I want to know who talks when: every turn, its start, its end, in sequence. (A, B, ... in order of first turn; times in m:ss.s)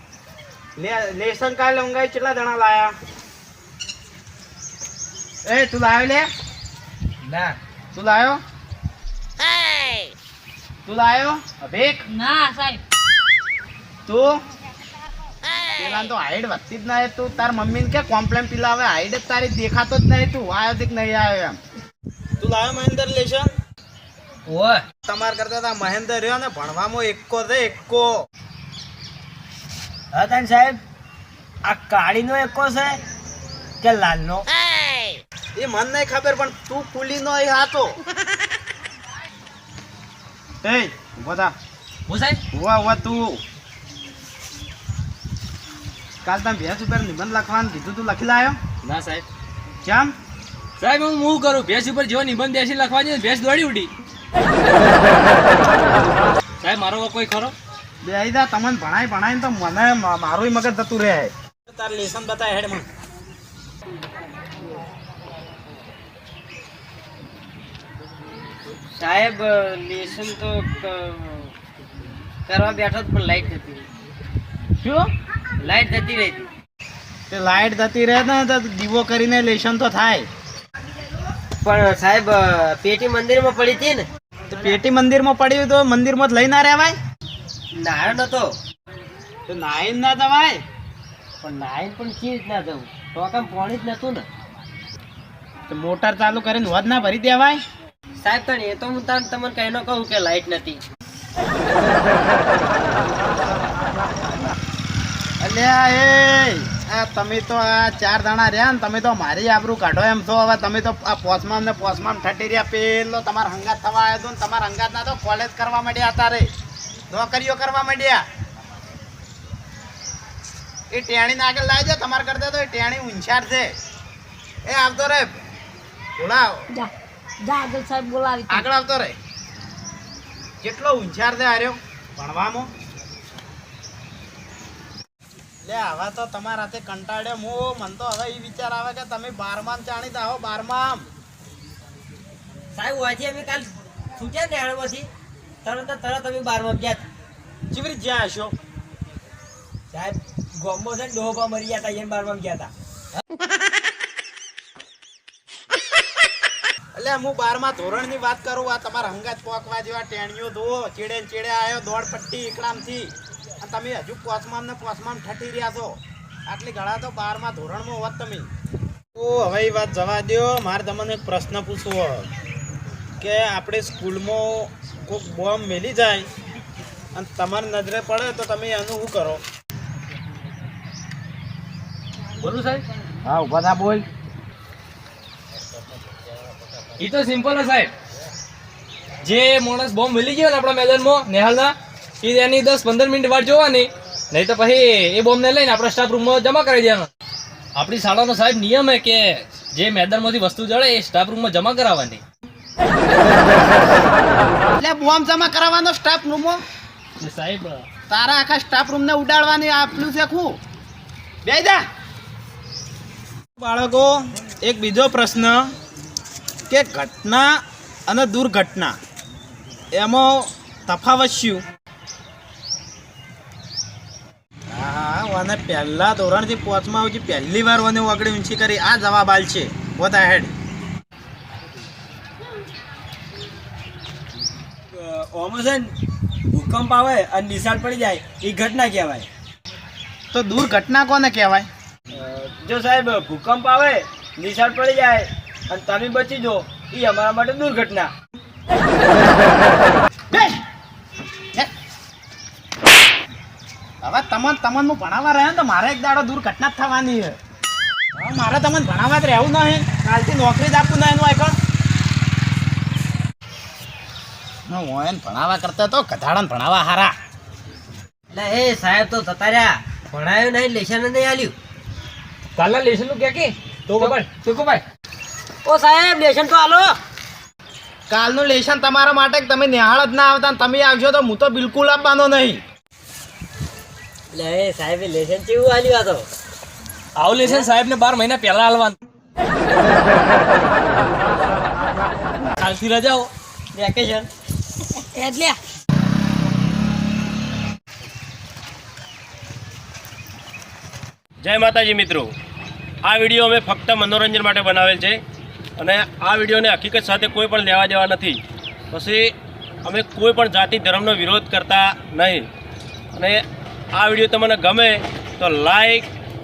0:00.8-0:02.9 A
0:05.4-0:06.3 A
0:07.9-0:08.4 A
0:10.8-0:12.0 A
0:12.1-0:12.8 B
0:14.0-0:14.4 A
0:15.8-0:21.6 A
0:22.4-0:23.5 A
0:24.5-0:24.8 C
0:25.0-0:28.1 A
0:30.1-0:30.8 D
0:31.6-0:33.0 D
0:33.8-0:34.5 D
0:35.6-0:38.0 A
0:40.6-0:41.5 A
0:42.1-0:42.4 C
0:42.5-0:43.4 A
0:46.2-0:48.6 A
0:48.8-0:49.2 C
0:49.8-0:50.1 A
0:50.8-0:53.9 C
0:56.6-0:57.5 C
0:58.0-1:02.9 A
1:08.9-1:11.5 E
1:12.5-1:13.8 E
1:14.8-1:15.1 A
1:15.6-1:16.4 E
1:17.3-1:20.3 A
1:21.6-1:24.1 E
1:24.5-1:26.9 A
1:27.8-1:28.5 E
1:29.5-1:30.6 A
1:31.4-1:34.2 E
1:35.7-1:37.6 A
1:38.2-1:40.8 E
1:44.0-1:44.5 A
1:45.4-1:56.5 A
1:57.1-1:58.2 A
2:00.9-2:03.7 A
2:04.6-2:05.4 A
2:06.2-2:06.6 A
2:07.4-2:08.6 B
2:08.5-2:09.2 A
2:10.6-2:12.7 A
2:15.6-2:21.0 A
2:22.7-2:25.1 E
2:25.6-2:27.0 E
2:27.7-2:28.5 A
2:29.9-2:32.7 D
2:36.9-2:48.5 A
2:49.1-2:52.3 A
2:53.2-2:56.3 A
2:57.1-2:59.4 A
3:02.4-3:02.8 C
3:03.2-3:04.0 A
3:07.0-3:07.9 C
3:09.2-3:17.1 C
3:17.8-3:22.2 C
3:24.8-3:26.6 A
3:27.2-3:27.8 C
3:28.1-3:30.6 A
3:31.4-3:31.8 A
3:33.6-3:35.7 A
3:36.7-3:37.5 A
3:38.1-3:38.9 A
3:39.9-3:41.6 A
3:44.7-3:50.5 A
3:54.9-3:55.9 D
3:56.5-3:59.3 D
4:00.3-4:01.7 A
4:02.1-4:08.1 D
4:10.3-4:10.6 A
4:14.0-4:17.4 A
4:18.1-4:21.6 A
4:24.7-4:27.1 A
4:28.3-4:31.5 E
4:32.6-4:34.8 C
4:35.6-4:37.0 E
4:38.1-4:42.6 A
4:44.3-4:46.3 E
4:47.2-4:49.0 C
4:52.6-4:53.3 C
4:53.7-4:54.3 E
4:55.1-4:55.6 B
5:01.4-5:02.3 F
5:03.0-5:05.2 F
5:05.8-5:12.5 F
5:13.1-5:13.4 F
5:14.0-5:16.1 F